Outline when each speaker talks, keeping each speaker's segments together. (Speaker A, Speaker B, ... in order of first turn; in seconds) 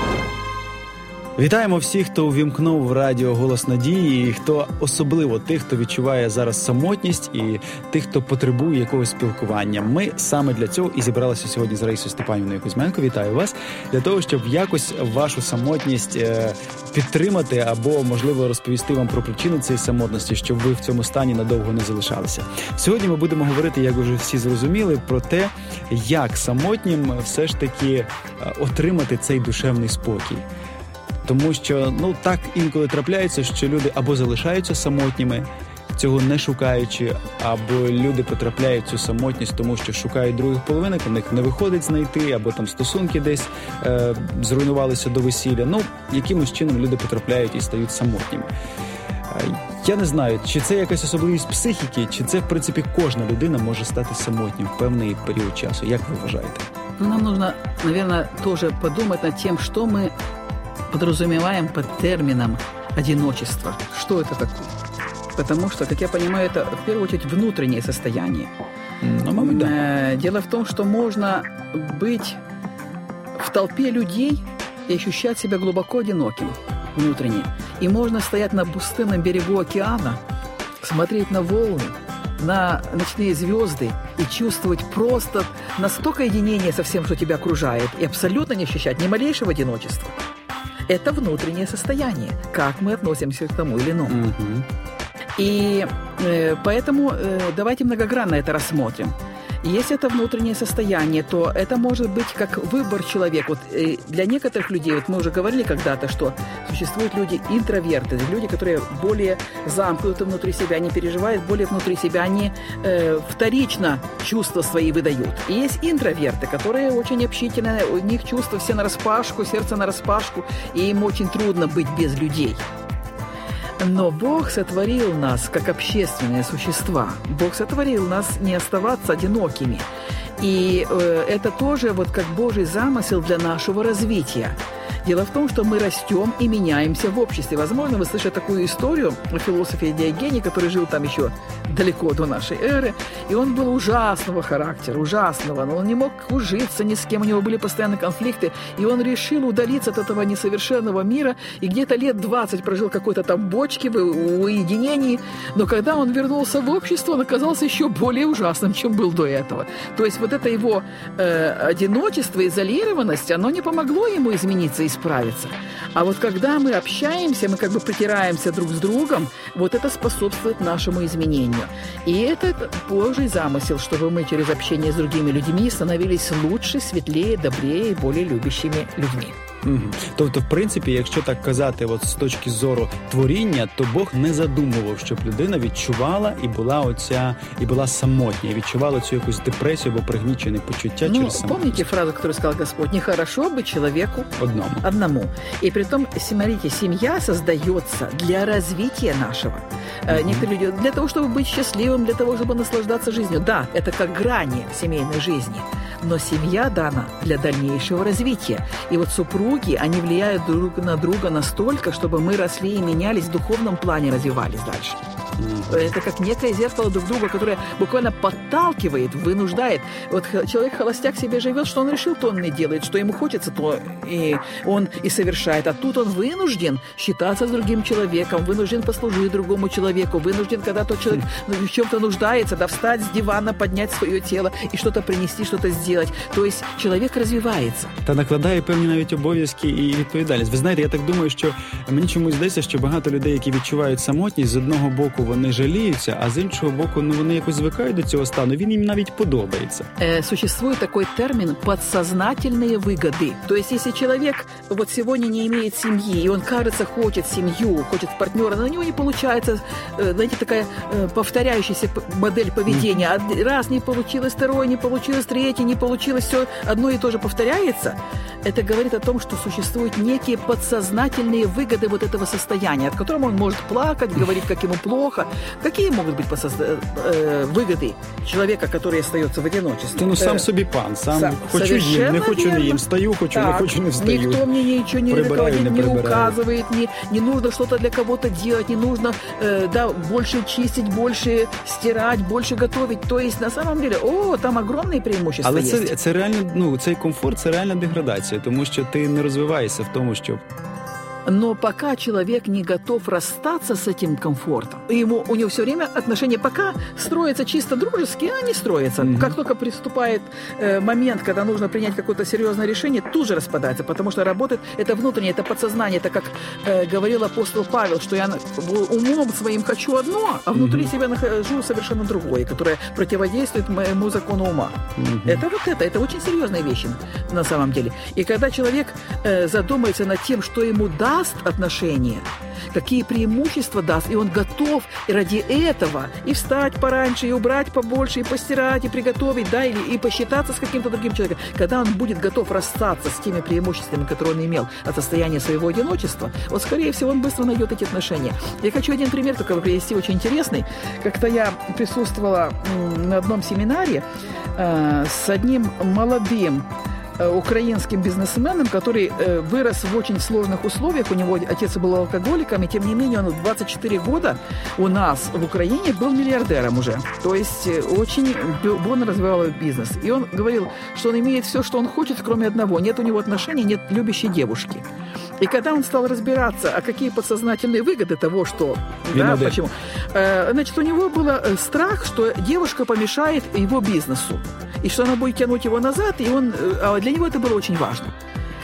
Speaker A: 1.4-30.4, 31.2-48.5, 49.3-56.6, 69.0-69.8, 94.1-94.7, 179.7-191.9, 194.4-194.8, 200.1-200.5, 215.4-215.9, 238.0-249.8, 279.9-284.5, 285.1-286.4, 295.4-300.4, 309.0-309.4, 320.6-320.9, 325.0-325.4, 379.1-379.6
Speaker B: 57.0-60.1, 60.9-64.7, 65.3-68.5, 69.4-72.4, 73.4-80.2, 80.8-90.2, 90.9-94.2, 95.4-122.6, 123.8-129.9, 130.4-179.4, 191.1-194.3, 194.8-215.0, 215.7-237.9, 250.0-280.5, 281.1-295.9, 301.2-354.1, 354.6-374.9, 375.4-388.1